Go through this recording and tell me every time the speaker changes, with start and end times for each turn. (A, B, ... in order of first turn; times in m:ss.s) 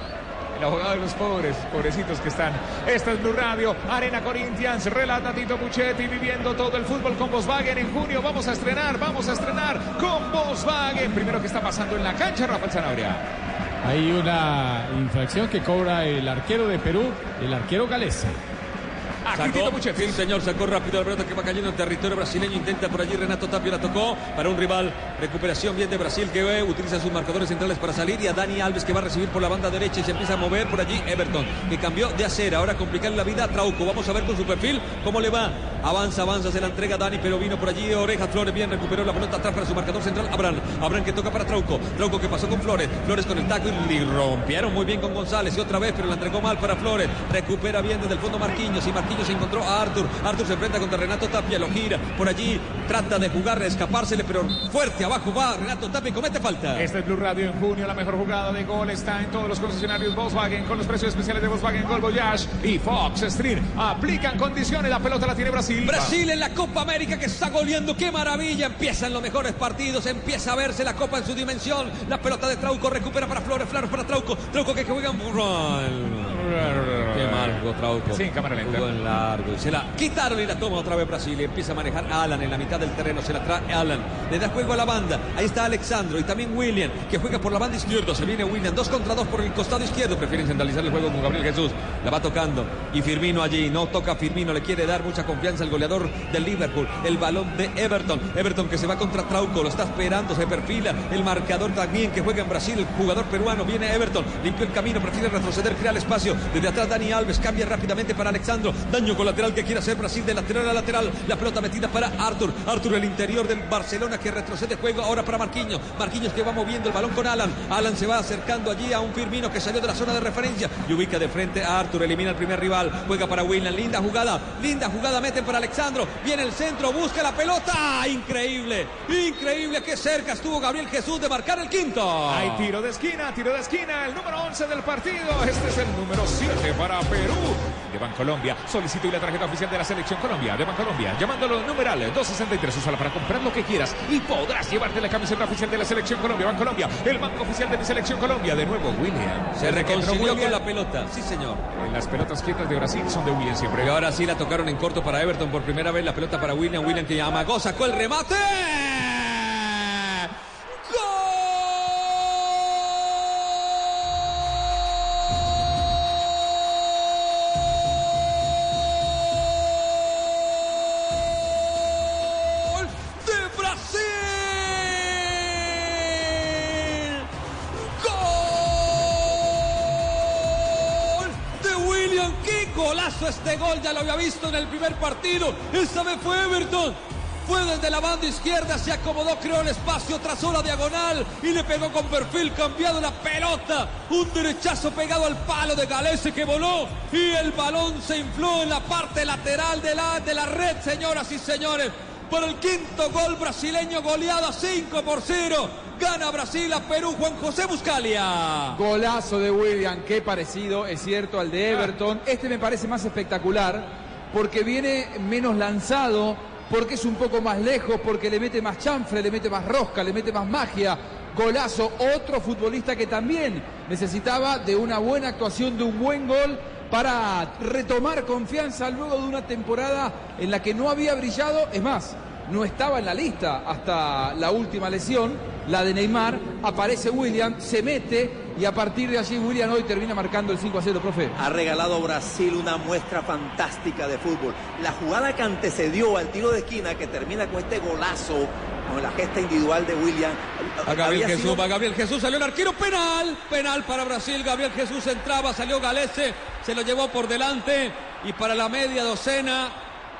0:00.5-0:13.2 A
0:13.8-0:18.4 B
0:19.3-0:20.2 A
0:19.3-0:56.9 C
0:56.8-1:06.2 A
1:05.8-2:12.7 C
1:16.4-1:18.8 A
2:12.3-2:30.6 A
2:29.6-2:31.6 C
2:31.7-2:34.0 A
2:33.8-2:40.3 C
2:40.9-2:43.6 C
2:44.2-2:44.9 C
2:46.6-2:47.9 C
2:48.9-2:57.3 C
2:58.0-3:28.8 C
3:28.7-4:01.3 D
4:01.4-4:11.7 E
4:10.8-4:19.7 C